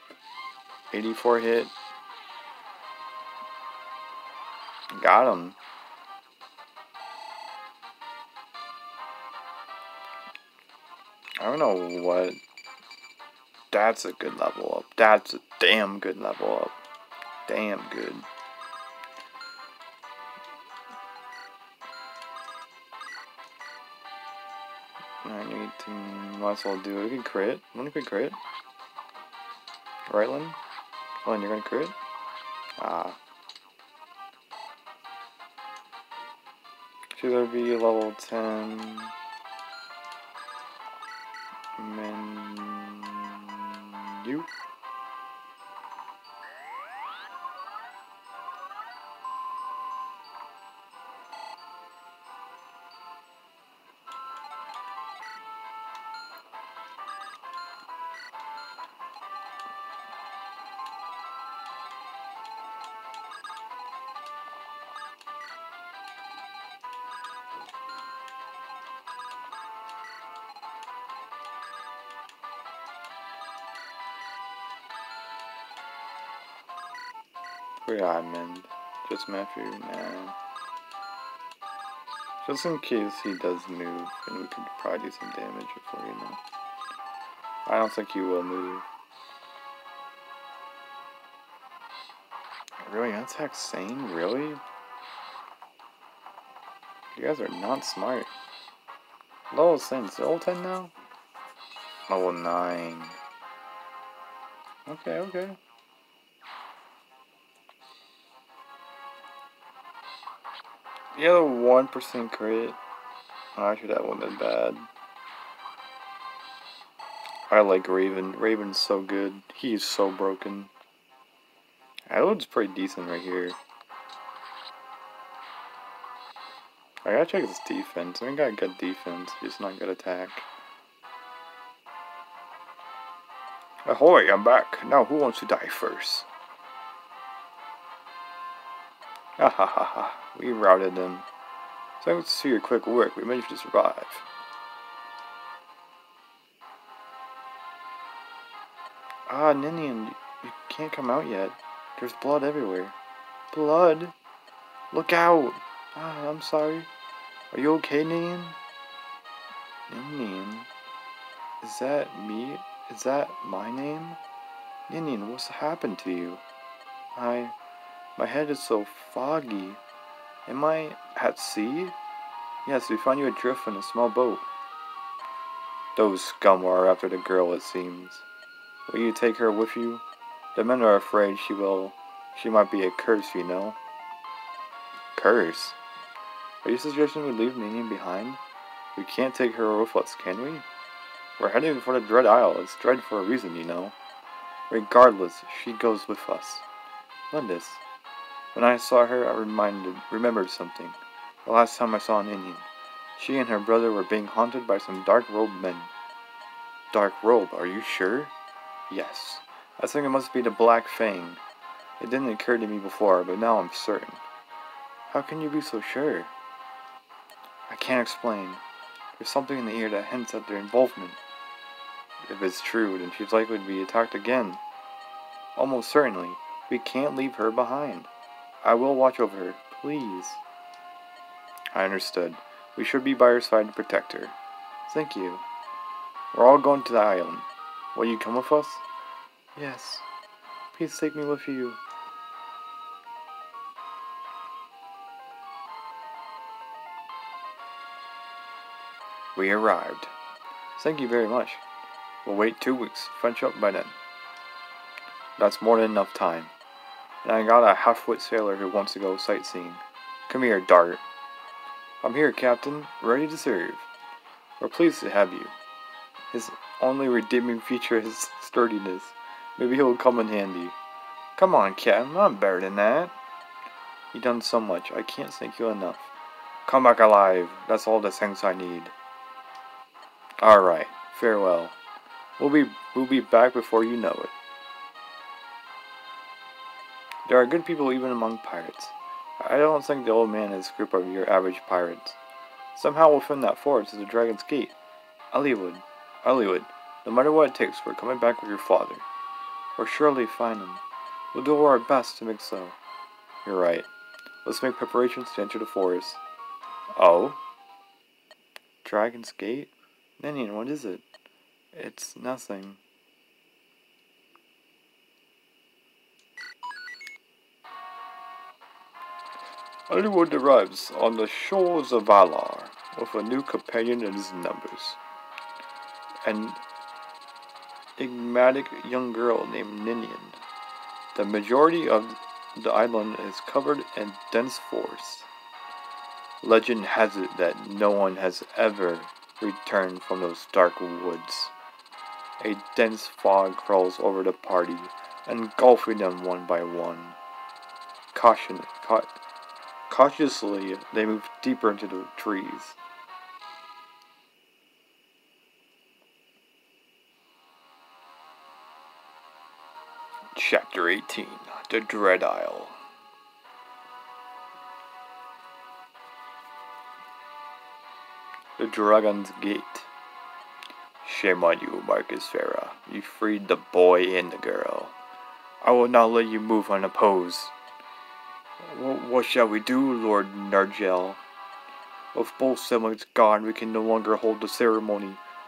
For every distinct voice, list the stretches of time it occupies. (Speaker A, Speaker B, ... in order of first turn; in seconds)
Speaker A: 0.9-1.7, 4.9-5.6, 11.4-12.4, 13.7-16.8, 17.5-18.3, 25.2-28.4, 30.1-30.6, 31.2-32.0, 32.8-33.2, 37.1-39.1, 41.8-44.5, 77.8-80.4, 82.4-86.4, 87.7-88.8, 92.8-94.6, 97.1-98.3, 99.5-100.9, 102.1-103.2, 104.9-105.6, 111.1-112.8, 113.5-114.9, 117.5-120.7, 122.1-123.6, 127.0-130.5, 133.9-136.3, 139.4-141.3, 142.0-144.2, 149.3-153.0, 153.5-154.2, 154.9-156.9, 157.5-158.6, 159.9-160.7, 161.6-164.2, 164.9-166.4, 167.2-167.6, 168.2-169.8, 170.5-172.0, 172.7-174.5, 175.9-178.3, 178.9-180.0, 180.6-183.8, 185.2-185.8, 186.6-188.4, 188.9-190.7, 191.4-194.0, 194.7-196.7, 197.3-197.8, 198.5-205.9, 206.9-208.3, 208.9-211.4, 212.0-214.2, 215.1-216.3, 217.7-218.6, 219.2-221.2, 222.3-224.6, 225.6-228.1, 228.6-230.4, 231.7-235.4, 236.3-238.8, 239.6-240.1, 240.7-241.8, 249.3-250.1, 250.8-251.6, 252.2-254.0, 255.4-256.5, 257.2-261.0, 262.0-263.9, 264.6-265.6, 266.3-270.8, 271.4-273.1, 274.1-276.1, 276.7-278.9, 280.4-281.8, 282.4-284.3, 287.3-292.2, 292.8-294.8, 295.3-299.1, 299.8-300.8, 301.3-302.8, 303.4-303.9, 304.4-306.2, 307.0-307.4, 308.8-311.0, 311.7-312.8, 319.9-325.0, 326.2-326.6, 328.0-330.4, 331.1-335.3, 336.4-341.5, 342.4-347.2, 348.1-349.2, 349.9-352.8, 360.4-362.8, 368.6-369.9, 371.0-374.9, 375.6-377.5, 378.6-381.2, 382.1-385.2